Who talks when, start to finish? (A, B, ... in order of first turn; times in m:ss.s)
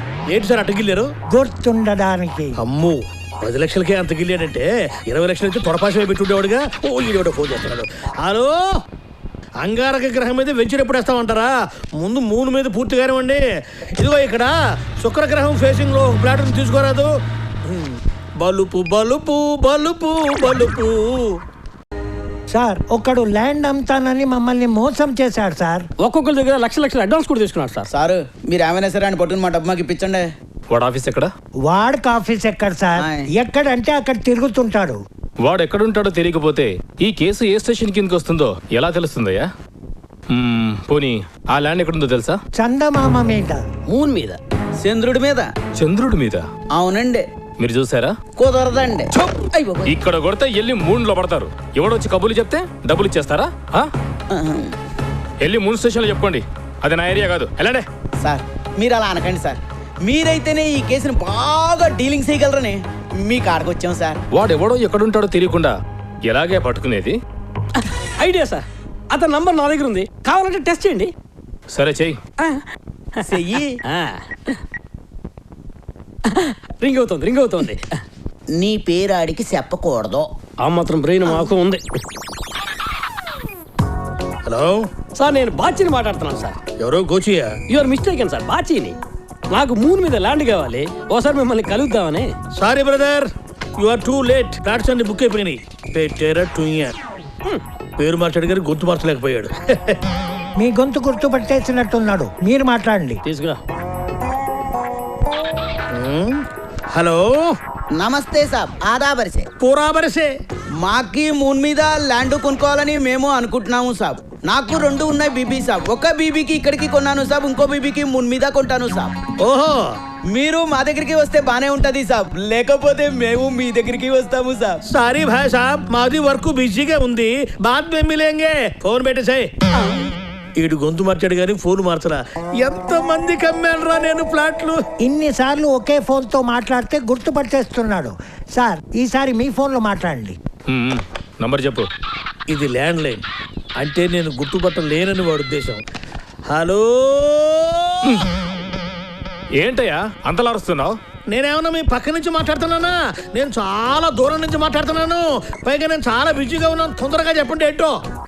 0:00.3-0:01.1 A
0:01.3-0:02.6 B
0:02.6-0:08.6 A
0:09.6-0:13.4 A
0:14.0-0:17.1 A
0:17.7-0:21.4 A
0:22.5-0:25.8 B
0:26.0-0:27.9 C
0:27.9-0:30.3 D
0:30.7-0:31.3 E
0:31.7-0:35.0 B
0:33.0-0:33.3 D
0:35.4-0:39.5 E
0:40.3-0:42.4 E
0:42.6-0:43.6 B
0:43.9-0:44.4 C
0:44.8-0:45.5 D
0:45.8-0:46.4 E
0:46.8-0:47.3 D
0:47.6-0:48.1 E
0:48.4-0:49.9 D
0:49.9-0:53.9 E
0:54.3-0:54.7 D
0:55.4-0:57.8 E
0:58.2-1:04.2 D
1:04.3-1:05.8 E
1:06.3-1:07.2 E
1:07.8-1:11.1 C
1:11.7-1:12.2 E
1:13.2-1:14.6 C
1:13.3-1:13.7 D
1:16.3-1:17.8 C
1:18.5-1:20.3 D
1:20.6-1:21.8 C
1:24.4-1:24.8 A
1:25.2-1:26.6 C
1:26.8-1:27.6 A
1:27.7-1:29.0 C
1:29.5-1:32.3 C
1:32.6-1:36.9 A
1:38.0-1:40.0 A
1:40.6-1:43.2 B
1:43.2-1:43.6 C
1:45.9-1:46.4 A
1:46.9-1:47.3 A
1:47.9-1:49.5 D
1:49.6-1:50.3 A
1:50.8-1:59.2 D
1:59.4-1:59.9 A
2:00.3-2:04.8 D
2:04.9-2:09.5 A
2:10.6-2:14.8 A
2:15.0-2:20.4 B
2:20.7-2:21.9 E
2:22.5-2:23.2 A
2:23.8-2:25.8 A
2:26.5-2:28.2 A
2:29.6-2:31.0 E
2:31.3-2:37.9 A